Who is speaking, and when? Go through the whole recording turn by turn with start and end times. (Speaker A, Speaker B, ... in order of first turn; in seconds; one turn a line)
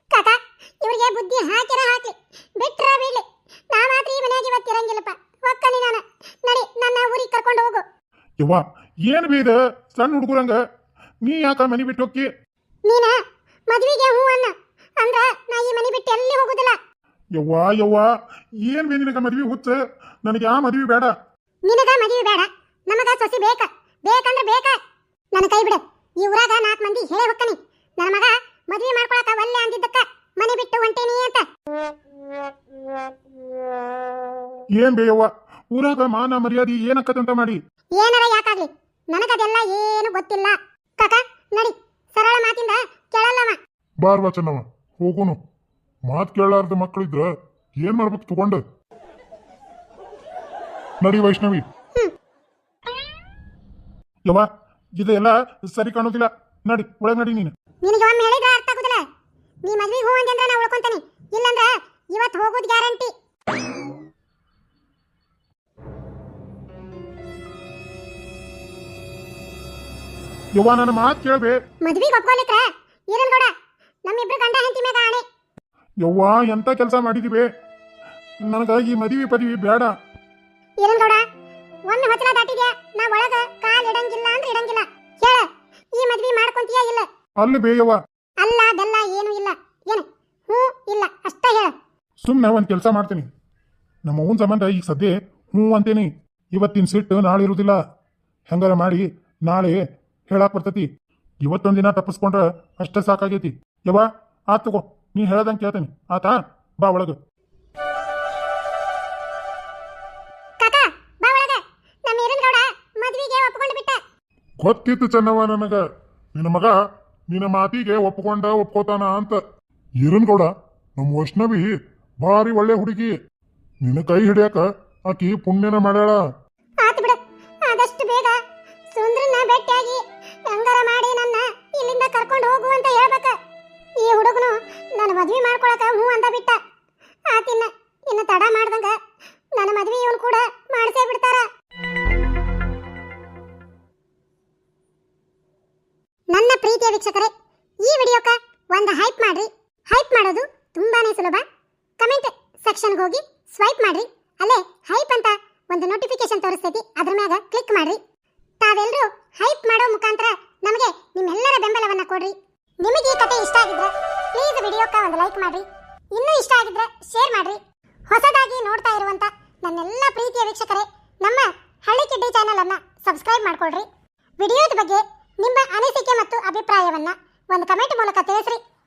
Speaker A: 0.1-7.8
Speaker B: 8.4-10.6
Speaker B: 11.2-12.3
Speaker A: 12.9-13.2
Speaker A: 13.7-16.8
Speaker B: 17.4-18.1
Speaker B: 18.6-21.1
Speaker A: 21.7-24.8
Speaker A: 25.3-31.5
Speaker B: 34.8-37.6
Speaker A: 38.0-43.6
Speaker C: 44.0-45.4
Speaker C: 46.1-47.3
Speaker C: 47.8-48.6
Speaker C: 51.1-51.6
Speaker B: 51.1-51.6
Speaker B: 55.0-57.5
Speaker A: 57.8-59.0
Speaker A: 59.6-63.1
Speaker B: 70.5-71.6
Speaker A: 71.8-73.5
Speaker A: 74.1-75.2
Speaker B: 76.0-77.5
Speaker B: 78.5-80.0
Speaker A: 80.8-81.2
Speaker A: 81.9-87.1
Speaker B: 87.4-88.0
Speaker A: 88.4-91.8
Speaker B: 92.2-93.3
Speaker B: 94.1-97.8
Speaker B: 98.5-100.9
Speaker B: 101.4-107.2
Speaker A: 110.6-114.0
Speaker C: 114.6-115.8
Speaker C: 116.4-116.8
Speaker C: 117.3-119.4
Speaker C: 120.1-121.7
Speaker C: 122.2-123.1
Speaker C: 123.9-126.2
Speaker A: 126.8-128.4
Speaker A: 128.9-133.4
Speaker A: 134.0-136.6
Speaker A: 137.3-138.9
Speaker A: 139.5-141.5
Speaker A: 146.3-147.3
Speaker A: 147.8-151.5
Speaker A: 152.0-158.0
Speaker A: 158.6-173.9
Speaker A: 174.4-178.6